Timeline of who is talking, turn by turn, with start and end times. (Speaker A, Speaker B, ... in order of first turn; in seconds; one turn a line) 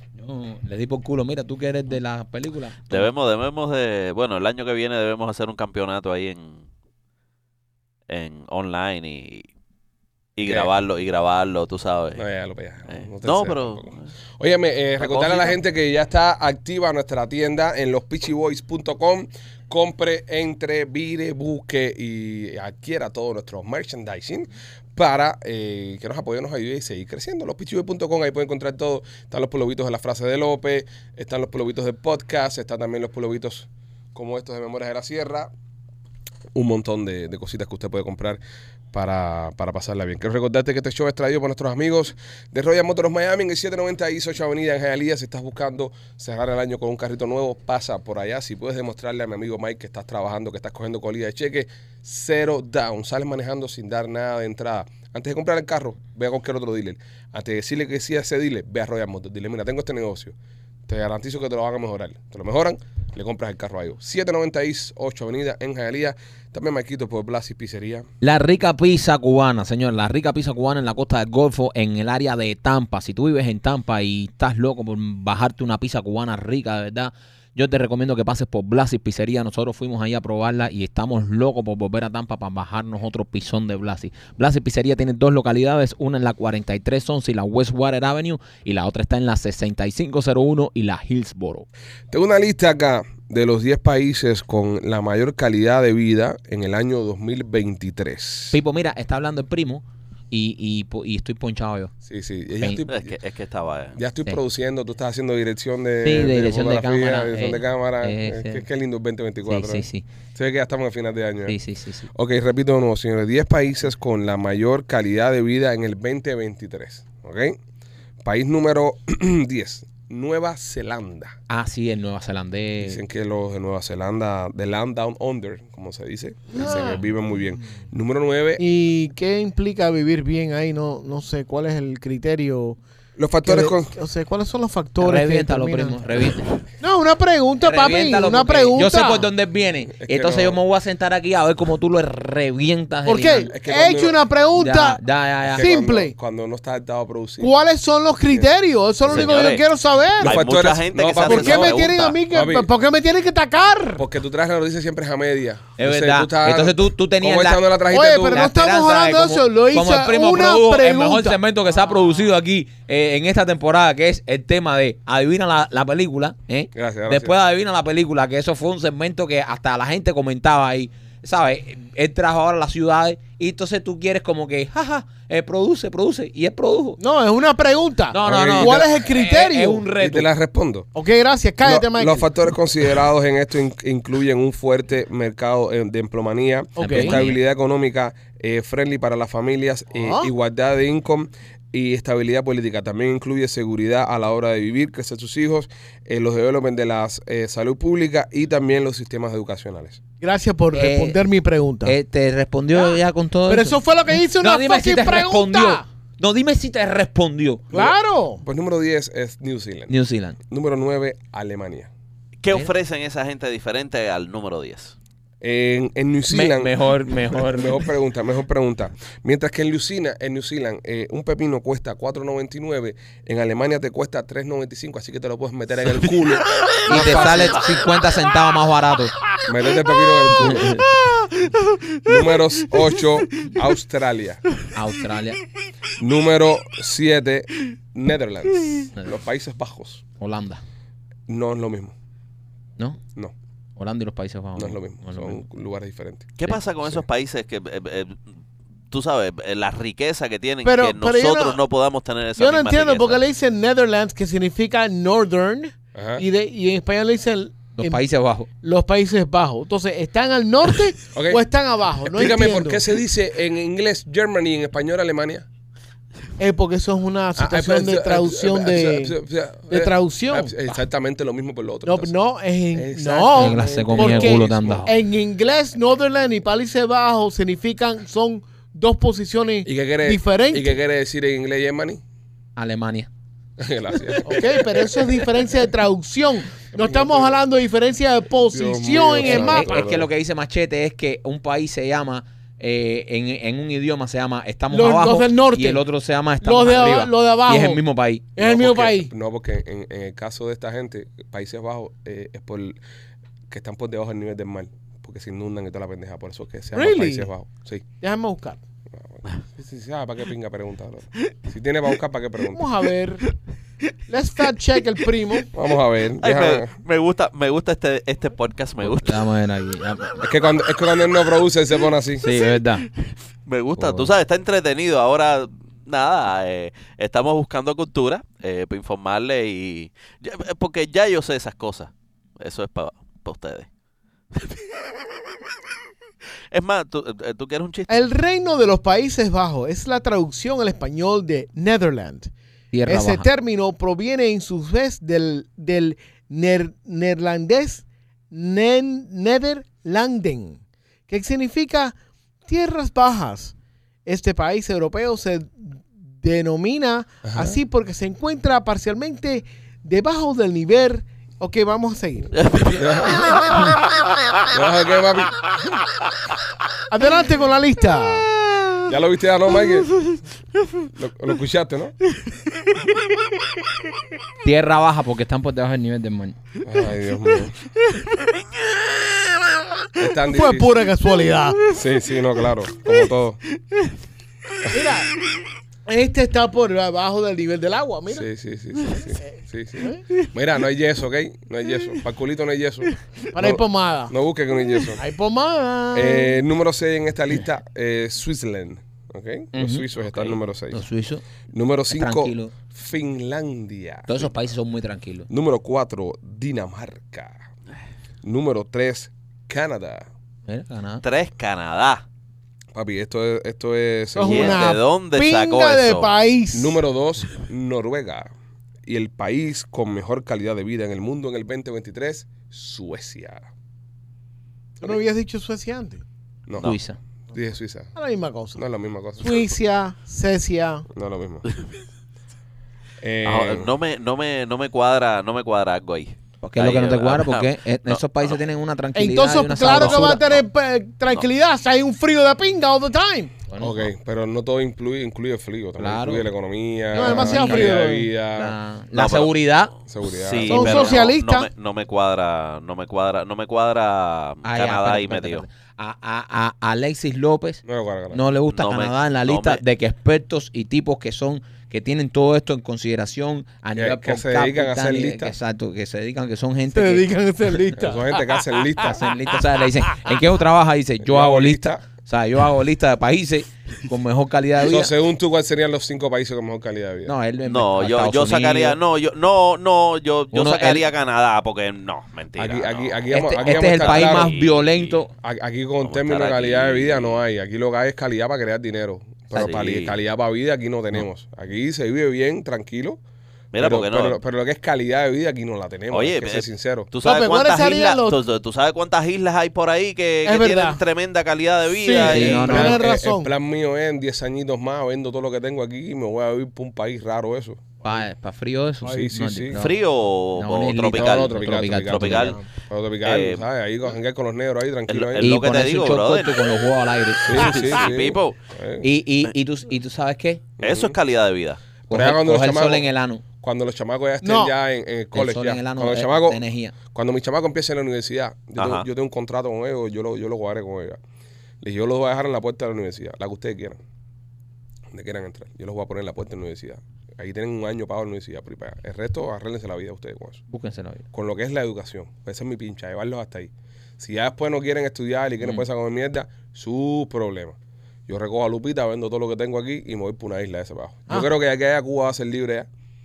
Speaker A: 0.2-3.1
Speaker B: 2.9-6.7
Speaker B: 8.1-9.5
Speaker B: 10.4-12.2
Speaker C: 10.4-10.7
Speaker C: 12.2-35.5
Speaker B: 12.9-14.1
Speaker B: 15.0-15.6
Speaker C: 36.5-38.4
Speaker C: 38.9-60.3
Speaker C: 60.9-68.1
Speaker A: 68.2-91.7
Speaker C: 92.1-98.6
Speaker A: 98.5-101.9
Speaker C: 102.0-103.2
Speaker B: 102.9-104.0
Speaker C: 104.0-111.6
Speaker A: 106.0-108.7
Speaker A: 109.5-110.1
Speaker A: 111.5-112.1
Speaker C: 112.1-117.6
Speaker C: 118.2-121.4
Speaker A: 121.5-123.0
Speaker C: 122.8-128.6
Speaker D: 126.5-127.1
Speaker D: 128.6-132.8
Speaker C: 133.2-133.9
Speaker D: 133.4-136.3
Speaker A: 135.0-136.6
Speaker D: 136.8-139.3
Speaker A: 137.6-143.5
Speaker C: 139.9-140.6
Speaker D: 143.1-145.0
Speaker C: 143.5-144.2
Speaker A: 144.5-145.7
Speaker C: 145.4-147.5
Speaker D: 145.5-146.1
Speaker D: 147.4-150.4
Speaker B: 149.1-149.6
Speaker C: 150.2-152.7
Speaker B: 150.2-152.2
Speaker D: 151.2-154.0
Speaker C: 154.0-158.5
Speaker A: 155.8-157.7
Speaker D: 157.9-161.4
Speaker A: 158.3-177.0
Speaker C: 166.7-167.4
Speaker D: 177.0-179.9
Speaker A: 178.1-180.3
Speaker C: 178.2-178.9
Speaker C: 180.0-180.9
Speaker D: 180.9-182.3
Speaker C: 181.6-200.0
Speaker D: 186.8-187.3
Speaker A: 186.8-187.4
Speaker D: 189.9-190.3
Speaker D: 200.2-202.0
Speaker A: 200.7-201.2
Speaker A: 201.8-207.7
Speaker D: 202.7-205.8
Speaker D: 207.7-208.4
Speaker C: 207.7-209.9
Speaker A: 209.9-210.4
Speaker C: 210.5-211.9
Speaker B: 212.4-214.9
Speaker C: 215.4-216.7
Speaker A: 216.3-217.9
Speaker C: 217.3-227.7
Speaker B: 226.5-227.5
Speaker A: 226.9-229.1
Speaker C: 229.4-230.8
Speaker A: 230.3-231.0
Speaker B: 230.8-232.0
Speaker C: 232.0-234.4
Speaker A: 234.7-235.4
Speaker C: 236.0-240.0
Speaker A: 240.2-240.6
Speaker C: 241.3-241.9
Speaker A: 243.8-245.4
Speaker C: 244.6-247.0
Speaker B: 246.4-248.2
Speaker B: 248.9-253.2
Speaker D: 250.6-251.6
Speaker D: 252.4-258.1
Speaker C: 255.9-256.2
Speaker A: 257.8-258.5
Speaker D: 258.6-262.8
Speaker C: 261.1-261.4
Speaker C: 262.1-265.5
Speaker D: 266.4-269.2
Speaker C: 267.4-272.1
Speaker D: 269.7-270.6
Speaker D: 271.9-280.8
Speaker C: 272.7-274.9
Speaker A: 273.4-274.9
Speaker C: 279.6-282.0
Speaker A: 282.6-283.1
Speaker C: 283.6-285.2
Speaker D: 284.2-289.9
Speaker C: 286.7-287.4
Speaker C: 288.5-290.1
Speaker A: 289.2-298.3
Speaker D: 294.7-295.9
Speaker D: 296.4-297.8
Speaker D: 298.4-299.1
Speaker C: 298.4-302.8
Speaker C: 303.5-307.8
Speaker D: 306.7-307.3
Speaker D: 308.0-308.6
Speaker C: 308.9-312.7
Speaker D: 312.5-313.3
Speaker D: 314.1-315.5
Speaker C: 315.5-316.7
Speaker B: 316.2-319.3
Speaker A: 318.8-320.2
Speaker C: 320.2-322.3
Speaker A: 322.2-322.9
Speaker B: 323.5-333.7
Speaker A: 323.8-324.1
Speaker B: 334.3-334.7
Speaker B: 336.5-338.0
Speaker D: 337.9-342.3
Speaker A: 342.7-343.3
Speaker D: 342.9-351.9
Speaker D: 352.5-353.5
Speaker D: 354.1-362.3
Speaker C: 357.2-357.6
Speaker B: 362.3-364.0
Speaker C: 362.7-363.5
Speaker C: 364.5-365.5
Speaker D: 366.9-368.3
Speaker C: 368.9-369.9
Speaker C: 370.9-371.9
Speaker A: 374.4-376.4
Speaker C: 376.6-377.6
Speaker C: 380.0-380.7
Speaker D: 380.2-381.6
Speaker C: 381.7-383.4
Speaker D: 384.7-385.1
Speaker D: 385.9-388.3
Speaker C: 388.1-395.0
Speaker D: 389.1-390.0
Speaker D: 393.3-394.1
Speaker D: 395.0-396.4
Speaker C: 395.9-400.8
Speaker A: 399.5-399.9
Speaker A: 400.7-401.2
Speaker C: 401.5-404.3
Speaker A: 401.9-402.5
Speaker A: 404.1-405.3
Speaker C: 405.3-407.5
Speaker C: 408.2-410.1
Speaker A: 410.5-411.0
Speaker B: 411.0-412.0
Speaker C: 412.8-414.7
Speaker D: 414.1-416.8
Speaker B: 414.2-416.1
Speaker C: 416.5-418.3
Speaker C: 418.9-423.5
Speaker D: 424.8-426.0
Speaker C: 426.5-426.8
Speaker A: 426.6-427.0
Speaker C: 427.3-427.9
Speaker D: 427.9-428.6
Speaker C: 428.6-429.5
Speaker D: 429.2-430.9
Speaker C: 430.9-431.4
Speaker C: 433.0-433.7
Speaker B: 433.2-438.4
Speaker A: 436.4-440.4
Speaker D: 438.9-443.3
Speaker A: 443.5-443.9
Speaker C: 443.6-448.6
Speaker A: 445.8-446.3
Speaker A: 446.9-449.7
Speaker D: 446.9-448.1
Speaker B: 448.9-449.3
Speaker C: 449.9-450.9
Speaker B: 450.0-455.4
Speaker D: 450.5-451.5
Speaker A: 450.6-450.8
Speaker A: 454.4-467.1
Speaker C: 457.6-458.2
Speaker B: 458.5-459.6
Speaker C: 463.8-465.4
Speaker D: 466.7-470.2
Speaker C: 467.8-469.0
Speaker A: 468.8-474.9
Speaker C: 471.0-471.8
Speaker C: 474.6-477.1
Speaker A: 477.1-478.8
Speaker B: 477.4-485.0
Speaker A: 480.3-480.9
Speaker C: 482.4-484.3
Speaker A: 483.1-485.1
Speaker C: 485.2-493.0
Speaker B: 485.8-487.2
Speaker B: 489.3-490.0
Speaker B: 493.5-494.2
Speaker C: 493.6-496.9
Speaker B: 495.9-502.7
Speaker D: 497.0-498.2
Speaker D: 500.2-500.8
Speaker D: 501.7-503.3
Speaker A: 502.0-502.8
Speaker C: 502.4-507.6
Speaker D: 507.8-508.1
Speaker A: 507.8-509.8
Speaker C: 508.9-509.6
Speaker B: 509.5-512.4
Speaker A: 510.4-512.4
Speaker C: 510.9-515.4
Speaker B: 513.0-513.5
Speaker B: 514.9-516.5
Speaker A: 515.2-517.6
Speaker C: 517.2-518.9
Speaker B: 517.3-518.4
Speaker A: 518.8-520.4
Speaker C: 520.6-521.0
Speaker B: 520.6-521.6
Speaker C: 521.9-522.9
Speaker A: 521.9-523.2
Speaker C: 523.4-531.0
Speaker D: 524.2-524.5
Speaker A: 525.1-526.8
Speaker B: 528.6-528.9
Speaker C: 531.6-533.8
Speaker C: 534.9-540.4
Speaker A: 540.5-541.0
Speaker C: 541.1-547.6
Speaker C: 548.1-552.7